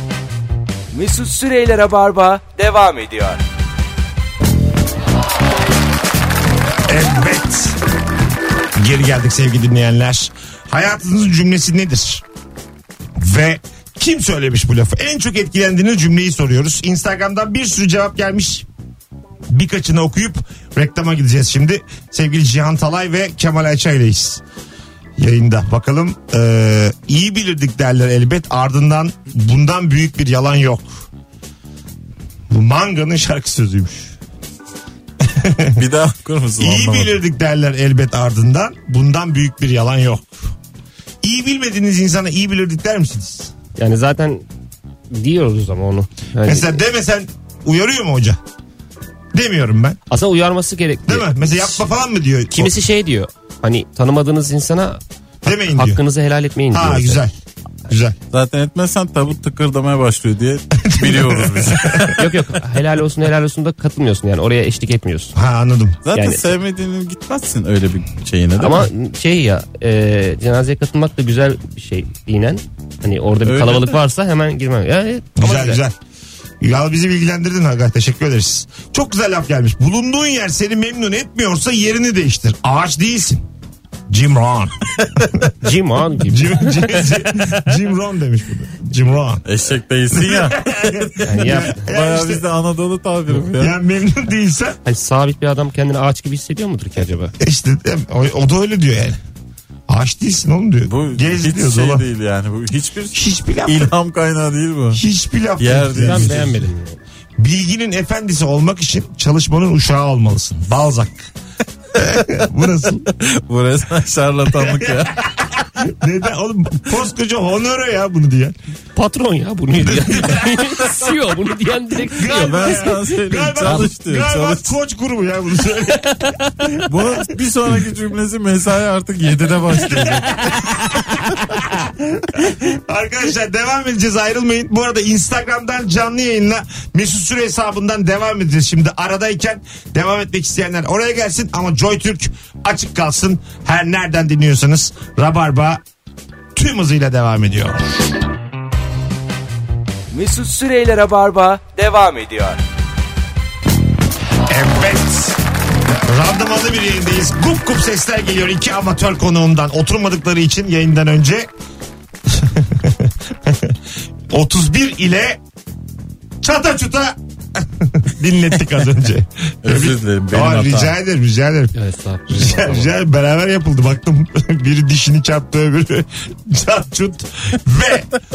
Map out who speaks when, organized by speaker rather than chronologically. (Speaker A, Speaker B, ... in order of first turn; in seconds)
Speaker A: 0.9-3.4, 150.1-152.6
Speaker B: 6.9-7.8, 8.8-12.2, 13.2-18.7, 19.5-24.4, 25.2-31.0, 32.5-34.2, 35.2-35.8, 36.6-40.5, 41.2-43.5, 46.4-48.4, 49.3-50.0, 51.1-52.7, 55.4-56.0, 56.7-57.3, 57.9-58.2, 60.8-62.2, 65.3-66.0, 75.4-76.0, 76.6-83.5, 84.1-85.5, 86.2-89.5, 90.1-92.4, 93.6-94.8, 97.4-99.2, 99.9-102.1, 103.1-103.9, 104.9-106.4, 107.4-111.3, 112.0-113.1, 114.5-115.3, 115.8-118.6, 119.8-120.7, 122.1-127.1, 130.2-131.0, 131.8-145.8, 146.6-147.8, 154.5-155.4, 156.1-161.5, 162.3-163.8, 164.3-165.4, 166.4-171.7, 172.3-178.1
Speaker C: 35.8-37.2, 58.3-62.3, 66.0-68.9, 73.4-74.0, 89.5-93.8, 100.8-105.0, 105.6-106.7, 113.1-115.3, 122.3-124.8, 126.8-130.5, 169.6-170.9
Speaker D: 43.8-44.5, 45.1-46.8, 50.1-51.8, 52.5-57.2, 62.1-65.3, 66.2-66.4, 68.6-75.8, 85.6-87.4, 91.2-91.8, 94.8-97.3, 106.0-107.0, 119.0-122.9, 123.6-123.9, 125.9-126.5, 171.7-172.9